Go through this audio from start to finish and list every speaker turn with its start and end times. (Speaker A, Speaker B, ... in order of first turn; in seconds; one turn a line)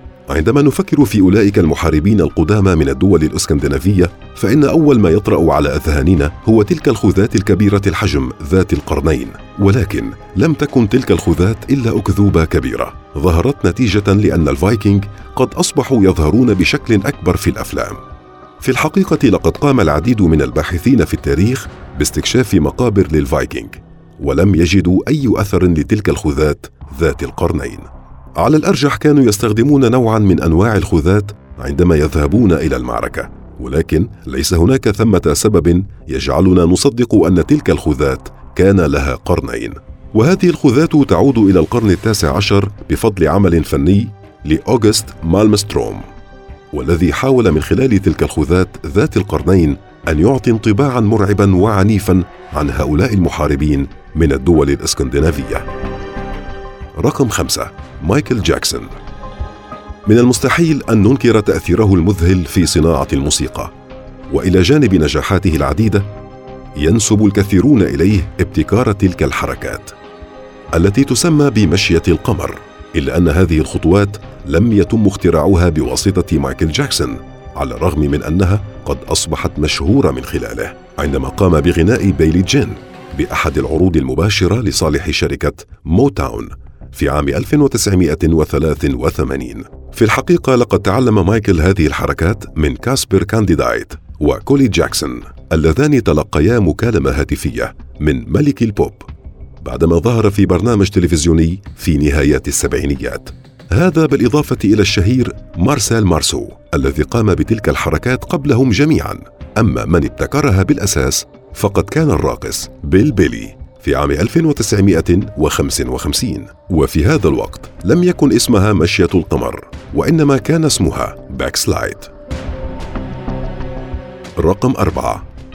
Speaker A: 0.3-18.0
Speaker A: 18.6-46.0
Speaker A: 46.7-55.7
Speaker A: 57.0-58.9
Speaker A: 60.1-63.7
Speaker A: 64.3-66.1
Speaker A: 66.8-69.9
Speaker A: 70.7-99.1
Speaker A: 99.6-122.1
Speaker A: 124.4-125.2